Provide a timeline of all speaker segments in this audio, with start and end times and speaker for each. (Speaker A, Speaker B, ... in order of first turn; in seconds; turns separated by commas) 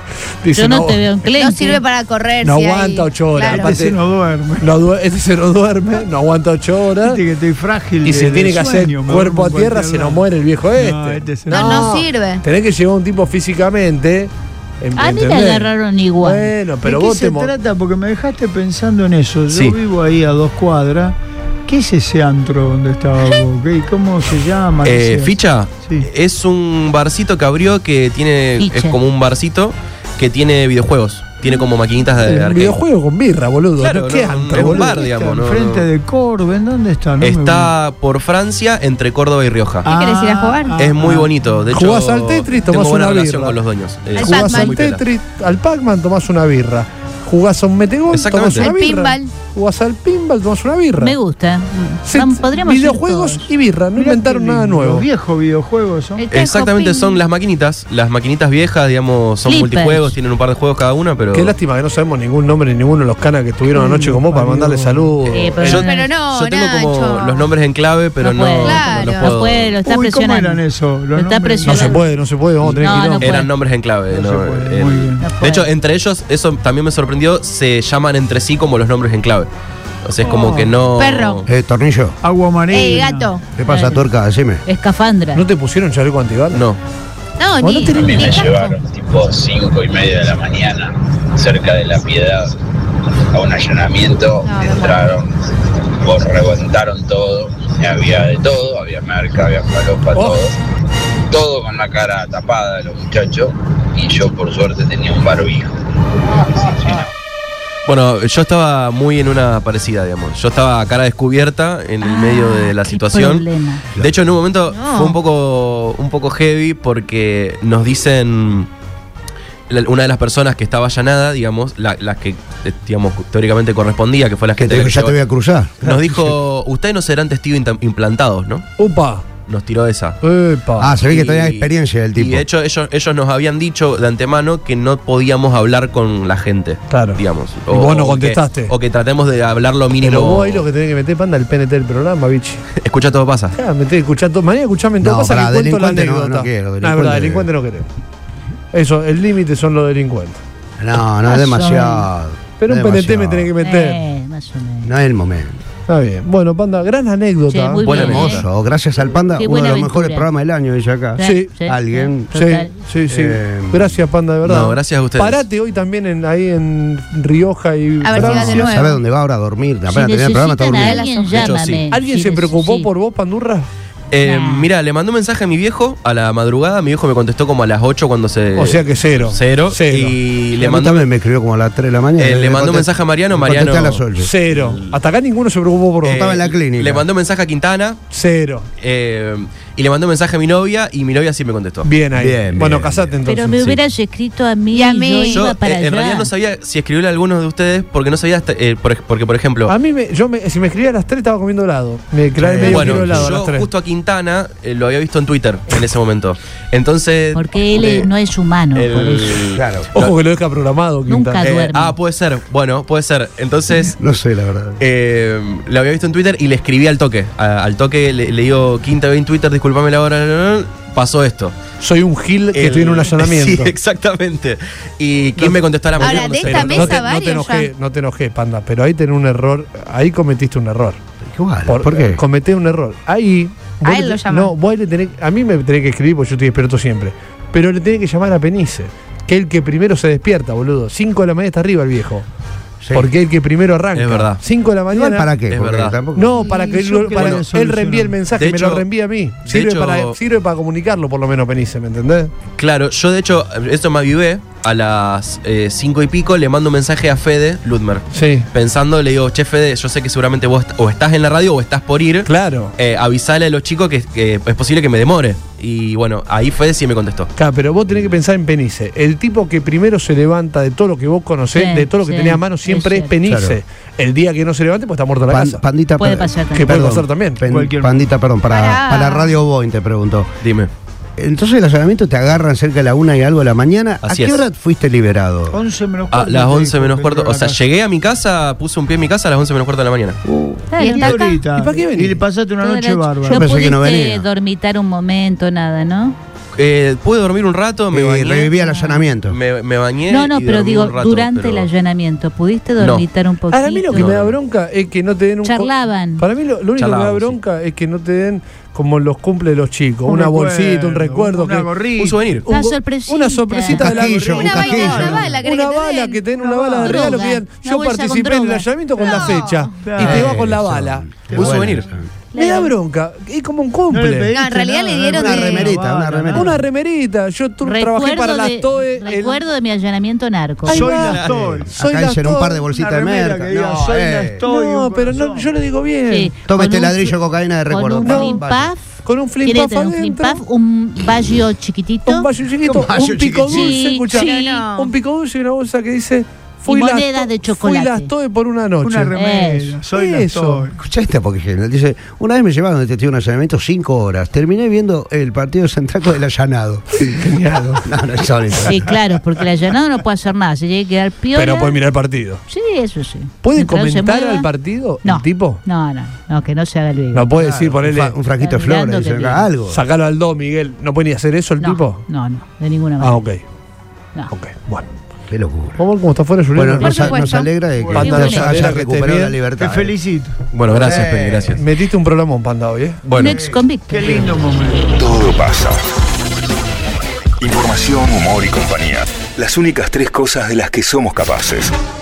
Speaker A: 0.4-1.1, Speaker B: 0.5-1.8, Speaker C: 1.3-3.8, Speaker A: 2.4-4.0, Speaker D: 3.5-4.7, Speaker A: 4.6-7.2, Speaker D: 7.0-10.2, Speaker A: 8.0-17.5, Speaker D: 10.8-11.6, Speaker C: 11.5-12.4, Speaker B: 14.9-16.5, Speaker D: 16.8-26.1, Speaker E: 19.5-19.8, Speaker E: 24.8-32.8, Speaker B: 28.6-29.0, Speaker A: 32.2-35.0, Speaker E: 33.8-35.9, Speaker D: 34.7-37.7, Speaker E: 37.2-39.9, Speaker C: 39.8-40.9, Speaker D: 39.9-41.3, Speaker E: 40.8-45.0, Speaker A: 41.7-43.6, Speaker C: 44.1-44.8, Speaker A: 44.1-51.2, Speaker E: 48.1-48.7, Speaker C: 48.6-49.3, Speaker B: 51.0-53.5, Speaker A: 52.0-55.1, Speaker D: 54.0-56.2, Speaker C: 56.2-57.2, Speaker E: 56.3-61.5, Speaker B: 59.4-60.2, Speaker A: 61.3-65.9, Speaker D: 63.8-65.2, Speaker B: 65.3-66.1, Speaker E: 65.6-69.8, Speaker C: 65.8-67.5, Speaker B: 68.2-70.6, Speaker C: 68.6-69.3, Speaker D: 69.8-71.8, Speaker B: 71.1-72.0, Speaker A: 71.6-73.3, Speaker B: 72.8-73.5, Speaker E: 73.2-79.5, Speaker D: 74.1-75.3, Speaker B: 75.2-75.7, Speaker E: 80.0-81.4, Speaker D: 80.2-80.7, Speaker C: 81.0-81.4, Speaker F: 81.5-82.2, Speaker D: 82.2-83.3, Speaker C: 82.7-83.4, Speaker F: 83.5-84.6, Speaker B: 83.7-84.1, Speaker B: 84.6-85.4, Speaker A: 85.3-86.7, Speaker E: 86.5-86.8, Speaker C: 87.4-88.1, Speaker A: 87.6-88.5, Speaker G: 88.0-92.5, Speaker B: 88.2-88.5, Speaker G: 93.3-95.3, Speaker C: 94.4-95.1, Speaker G: 95.9-100.5, Speaker A: 100.1-100.4, Speaker G: 101.3-105.7, Speaker G: 106.4-107.1, Speaker E: 107.8-118.7, Speaker B: 112.0-113.8, Speaker C: 114.7-115.2, Speaker E: 119.7-125.2, Speaker F: 124.6-126.3, Speaker E: 125.8-128.7, Speaker A: 128.8-129.2, Speaker E: 129.4-130.2, Speaker A: 130.2-130.9, Speaker F: 130.8-132.4, Speaker E: 131.0-140.7, Speaker A: 136.9-138.7, Speaker A: 140.0-142.6, Speaker E: 142.8-143.5, Speaker A: 143.5-147.8, Speaker F: 145.0-147.5, Speaker A: 148.7-150.4, Speaker F: 150.8-153.5, Speaker B: 151.2-152.1, Speaker A: 152.6-154.0, Speaker B: 153.6-154.9, Speaker F: 154.8-155.6, Speaker A: 155.9-158.1, Speaker B: 157.5-158.4, Speaker E: 157.8-158.5, Speaker F: 158.1-162.3, Speaker B: 159.3-160.3, Speaker B: 161.2-162.7, Speaker A: 161.2-161.5, Speaker A: 162.3-168.8, Speaker F: 163.1-164.0, Speaker E: 164.4-165.4, Speaker C: 168.0-169.0, Speaker F: 168.1-171.0, Speaker B: 169.9-172.9, Speaker C: 170.7-171.5, Speaker E: 171.3-171.8, Speaker A: 171.9-173.7, Speaker E: 174.1-181.0, Speaker B: 174.2-174.7, Speaker A: 178.5-181.0, Speaker F: 180.9-184.3, Speaker E: 182.2-185.0, Speaker A: 184.2-186.2, Speaker E: 186.0-188.0, Speaker F: 186.1-187.1, Speaker A: 188.1-188.7, Speaker E: 188.8-191.9, Speaker A: 191.8-193.8, Speaker F: 192.2-193.1, Speaker B: 193.2-196.3, Speaker C: 194.7-195.5, Speaker E: 195.3-199.7, Speaker A: 199.7-203.7, Speaker F: 202.4-203.3, Speaker E: 202.6-208.1, Speaker B: 207.3-209.3, Speaker E: 208.7-210.1, Speaker F: 209.5-209.9, Speaker A: 209.9-211.6, Speaker B: 211.1-211.9, Speaker E: 211.4-214.0, Speaker F: 214.0-214.8, Speaker E: 214.8-221.5, Speaker A: 221.8-223.7, Speaker E: 222.5-226.9, Speaker A: 225.3-231.0, Speaker C: 226.0-227.7, Speaker F: 231.2-232.2, Speaker A: 231.7-242.2, Speaker C: 233.8-234.5, Speaker F: 242.8-243.1, Speaker A: 242.9-245.3, Speaker E: 243.9-244.4, Speaker F: 244.9-246.4, Speaker E: 245.5-246.0, Speaker A: 246.1-252.3, Speaker D: 246.6-248.2, Speaker E: 247.1-247.4, Speaker E: 248.3-248.9, Speaker E: 249.4-250.2, Speaker E: 252.6-267.3, Speaker A: 258.1-258.5, Speaker A: 262.2-262.7, Speaker A: 267.4-275.6, Speaker B: 271.5-273.1, Speaker F: 273.2-273.6, Speaker F: 275.3-280.3, Speaker B: 276.0-276.7, Speaker A: 276.5-277.4, Speaker D: 277.4-278.0, Speaker C: 278.5-279.3, Speaker E: 280.4-280.7, Speaker F: 281.2-285.6, Speaker E: 284.0-284.4, Speaker D: 285.5-287.6, Speaker E: 286.1-290.2, Speaker F: 290.2-290.7, Speaker B: 290.7-291.4, Speaker C: 290.8-291.4, Speaker D: 290.8-293.4, Speaker A: 291.5-292.2, Speaker B: 292.6-296.1, Speaker F: 293.3-294.2, Speaker E: 296.6-298.5, Speaker F: 297.9-299.4, Speaker B: 298.6-299.1, Speaker E: 299.3-301.7, Speaker B: 300.1-304.1, Speaker E: 302.8-303.1, Speaker A: 303.5-311.8, Speaker E: 303.9-304.4, Speaker B: 305.4-306.2, Speaker E: 306.7-307.4, Speaker D: 310.1-312.2, Speaker E: 312.0-312.4, Speaker A: 312.3-321.2, Speaker B: 312.5-313.9, Speaker F: 313.7-315.4, Speaker C: 314.2-317.1, Speaker D: 316.3-316.8, Speaker B: 316.8-318.6, Speaker D: 319.8-320.3, Speaker F: 320.0-322.1, Speaker D: 321.3-321.7, Speaker E: 321.3-321.9, Speaker B: 322.3-322.7, Speaker A: 322.3-324.5, Speaker D: 323.9-326.6, Speaker C: 324.3-325.8, Speaker F: 325.1-326.6, Speaker A: 326.3-329.4, Speaker B: 327.6-330.9, Speaker A: 330.6-332.6, Speaker D: 330.7-331.7, Speaker E: 330.9-331.4, Speaker F: 331.2-334.4, Speaker D: 332.7-335.5, Speaker A: 334.4-336.3, Speaker B: 336.1-337.1, Speaker F: 336.5-338.7, Speaker B: 337.7-342.3, Speaker A: 338.0-338.4, Speaker A: 339.0-340.4, Speaker A: 342.1-349.1, Speaker F: 342.6-343.7, Speaker B: 343.5-344.7, Speaker C: 344.2-344.9, Speaker B: 346.6-348.1, Speaker D: 348.8-350.7, Speaker B: 349.1-349.8, Speaker A: 349.9-350.7, Speaker F: 350.7-358.9, Speaker B: 358.6-361.8, Speaker A: 361.3-362.4, Speaker B: 362.5-367.3, Speaker A: 363.4-365.6, Speaker A: 367.1-368.2, Speaker F: 367.3-369.8, Speaker B: 368.4-369.5, Speaker A: 369.6-372.0, Speaker B: 371.6-373.2, Speaker A: 373.0-373.4, Speaker A: 374.3-374.9, Speaker F: 375.3-375.8, Speaker A: 375.8-377.1, Speaker F: 376.5-379.9, Speaker C: 376.8-378.2, Speaker B: 377.1-377.4, Speaker A: 377.9-379.4, Speaker B: 378.0-378.6, Speaker D: 379.6-380.3, Speaker E: 380.5-381.6, Speaker F: 380.7-381.5, Speaker A: 381.5-383.0, Speaker E: 383.0-383.5, Speaker B: 383.1-384.3, Speaker F: 383.3-383.6, Speaker D: 383.9-384.9, Speaker H: 384.9-385.8, Speaker H: 387.4-391.8